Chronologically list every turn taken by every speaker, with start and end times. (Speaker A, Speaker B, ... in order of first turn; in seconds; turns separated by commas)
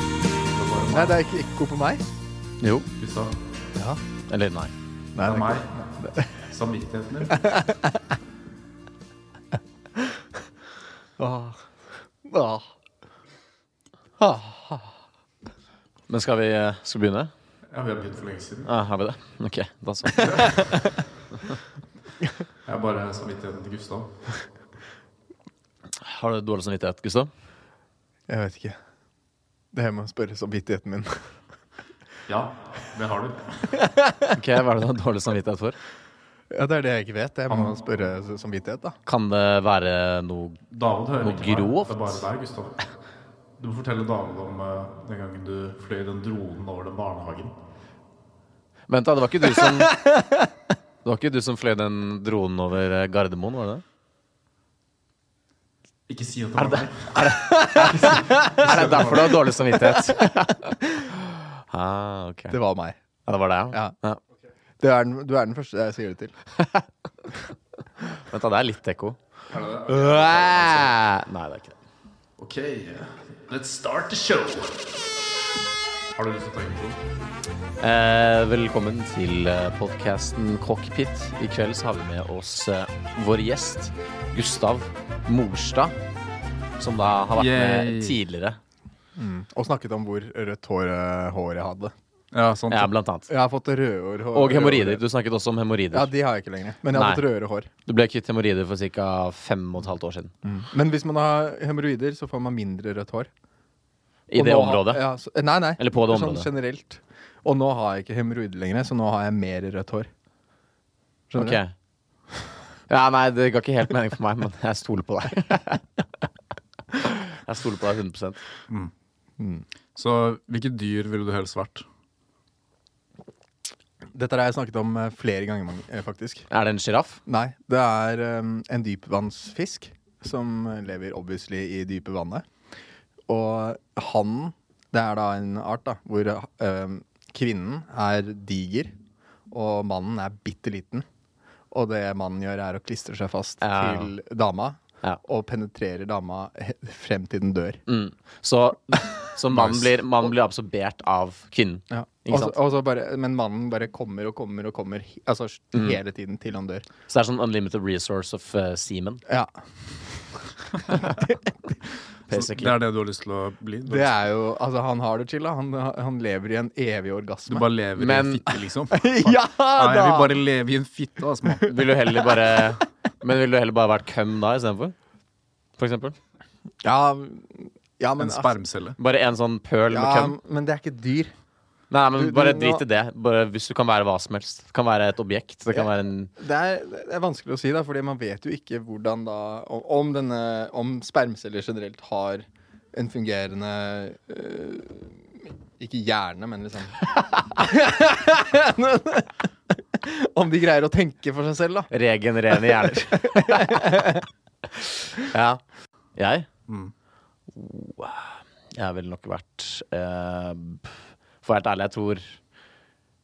Speaker A: 0.5-1.2, Speaker B: 0.9-2.0, Speaker C: 2.6-2.9, Speaker A: 3.0-3.3, Speaker B: 3.8-4.0, Speaker C: 4.3-4.7, Speaker B: 5.2-6.3, Speaker A: 5.2-5.8, Speaker A: 6.5-7.4, Speaker B: 7.3-8.1, Speaker B: 11.2-12.7, Speaker B: 14.2-15.0, Speaker C: 16.1-17.3, Speaker A: 17.7-18.7, Speaker C: 18.7-20.7, Speaker B: 20.1-20.9, Speaker A: 22.6-24.1, Speaker C: 26.0-27.3, Speaker B: 28.3-28.8, Speaker B: 29.7-31.3, Speaker A: 32.3-33.8, Speaker B: 33.8-34.3, Speaker C: 34.3-35.8, Speaker B: 36.5-39.0, Speaker C: 39.1-40.6, Speaker A: 40.7-42.8, Speaker C: 41.2-42.2, Speaker A: 43.6-47.5, Speaker C: 48.9-50.0, Speaker B: 49.6-50.5, Speaker C: 51.0-53.8, Speaker A: 56.1-57.2, Speaker C: 56.6-60.5, Speaker B: 57.3-59.4, Speaker A: 58.7-59.3, Speaker B: 59.9-61.2, Speaker C: 61.7-62.6, Speaker B: 62.5-63.0, Speaker C: 63.3-64.2, Speaker B: 64.8-66.3, Speaker C: 66.6-66.9, Speaker C: 68.2-69.2, Speaker A: 69.5-71.0, Speaker C: 69.9-71.8, Speaker A: 72.4-74.9, Speaker A: 76.2-77.0, Speaker C: 77.8-86.0, Speaker C: 86.8-88.6, Speaker A: 87.4-88.2, Speaker B: 89.2-91.9, Speaker A: 92.3-92.9, Speaker C: 92.7-93.3, Speaker B: 93.3-95.0, Speaker C: 94.3-96.1, Speaker B: 95.9-97.7, Speaker C: 96.9-97.2, Speaker C: 97.9-100.3, Speaker B: 100.4-103.3, Speaker C: 104.3-105.0, Speaker B: 104.3-110.1, Speaker C: 105.8-106.5, Speaker B: 111.3-111.6, Speaker C: 111.3-111.7, Speaker C: 112.9-115.9, Speaker C: 117.3-118.4, Speaker B: 119.4-119.7, Speaker A: 120.0-121.9, Speaker B: 124.1-126.5, Speaker C: 126.5-127.2, Speaker B: 127.3-132.5, Speaker B: 133.3-138.9, Speaker B: 139.5-141.1, Speaker B: 141.7-147.8, Speaker C: 143.6-144.1, Speaker C: 147.9-152.6, Speaker A: 149.5-150.0, Speaker B: 151.9-156.9, Speaker C: 155.7-156.0, Speaker C: 157.1-159.2, Speaker B: 159.3-159.5, Speaker B: 160.7-161.5, Speaker C: 162.3-162.8, Speaker A: 162.3-164.1, Speaker B: 163.9-167.7, Speaker A: 167.5-171.7, Speaker C: 168.0-168.5, Speaker B: 168.9-170.4, Speaker C: 171.7-174.9, Speaker C: 175.8-176.2, Speaker B: 176.8-178.5, Speaker A: 178.2-179.0, Speaker C: 179.0-180.3, Speaker B: 179.9-181.3, Speaker C: 181.9-186.3, Speaker B: 182.2-182.8, Speaker B: 185.7-201.9, Speaker C: 201.9-203.7, Speaker B: 202.7-204.3, Speaker C: 205.2-205.6, Speaker C: 206.2-206.5, Speaker C: 207.5-212.4